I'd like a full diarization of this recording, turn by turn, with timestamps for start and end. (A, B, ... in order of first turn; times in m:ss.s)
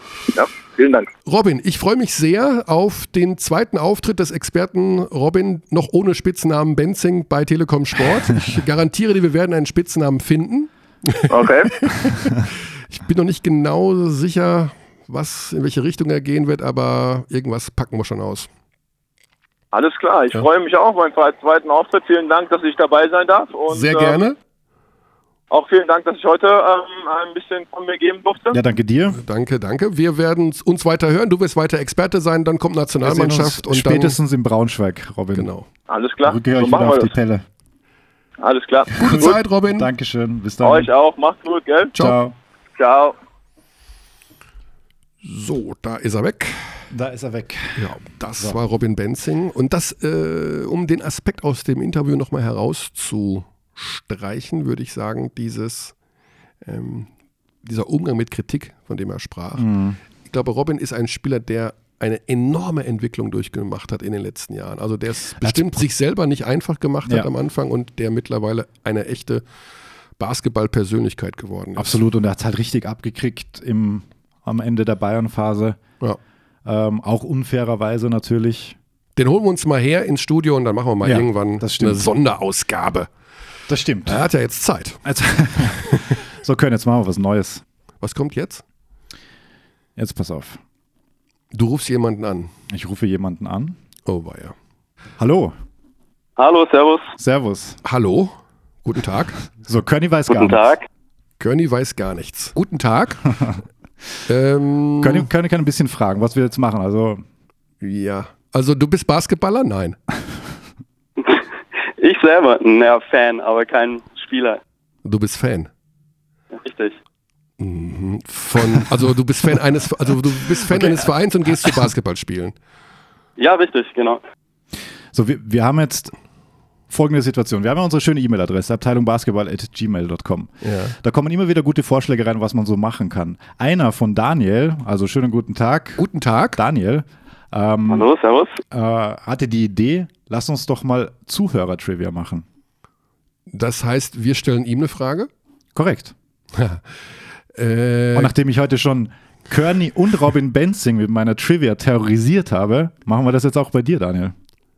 0:00.3-0:01.1 A
0:01.2-0:18.5 B
0:11.3-0:11.8 A
0:19.7-0:24.2 A
0:23.7-0:24.4 B
0:25.5-0:28.6 A
0:28.5-0:29.2 C
0:29.1-0:34.2 B
0:33.0-0:35.5 C
0:35.3-0:35.7 B
0:35.9-0:37.1 A
0:36.2-0:37.4 C
0:38.4-0:39.4 A
0:39.0-0:39.9 B
0:39.0-0:40.9 C
0:40.6-0:41.9 A
0:42.0-0:42.3 C
0:42.8-0:43.1 A
0:45.2-0:46.9 B
0:46.9-0:48.6 C
0:47.8-0:55.9 B
0:56.6-0:57.1 B
0:57.6-0:59.7 B
0:59.6-1:00.0 C
1:00.2-1:09.4 B
1:05.4-1:05.8 C
1:10.2-1:12.0 B
1:11.8-1:15.8 C
1:16.6-1:18.8 C
1:19.2-1:23.1 B
1:21.0-1:22.1 C
1:23.7-1:24.2 C
1:24.0-1:25.0 B
1:25.0-1:27.6 C
1:25.7-1:26.2 B
1:28.0-1:28.6 B
1:30.0-1:30.6 C
1:31.5-1:32.5 B
1:32.7-1:33.8 C
1:34.0-1:34.5 B
1:35.2-1:35.5 C
1:36.4-1:37.1 D
1:37.2-1:37.8 C
1:37.8-1:39.4 B
1:39.6-1:40.6 C
1:40.3-1:40.9 D
1:41.4-1:43.4 B
1:44.2-1:45.3 B
1:45.0-1:47.2 C
1:47.8-1:50.0 B
1:52.0-1:54.6 D
1:55.0-1:55.7 B
1:56.5-1:57.0 D
1:57.6-2:02.6 B
2:00.6-2:01.1 C
2:03.4-2:04.2 D
2:05.1-2:06.1 C
2:06.9-2:18.1 C
2:10.6-2:10.9 B
2:16.0-2:16.6 B
2:17.9-2:18.6 D
2:18.7-2:22.4 C
2:23.5-2:25.3 B
2:25.7-2:26.1 C
2:26.5-2:27.0 B
2:27.5-2:28.3 B
2:28.1-2:34.3 C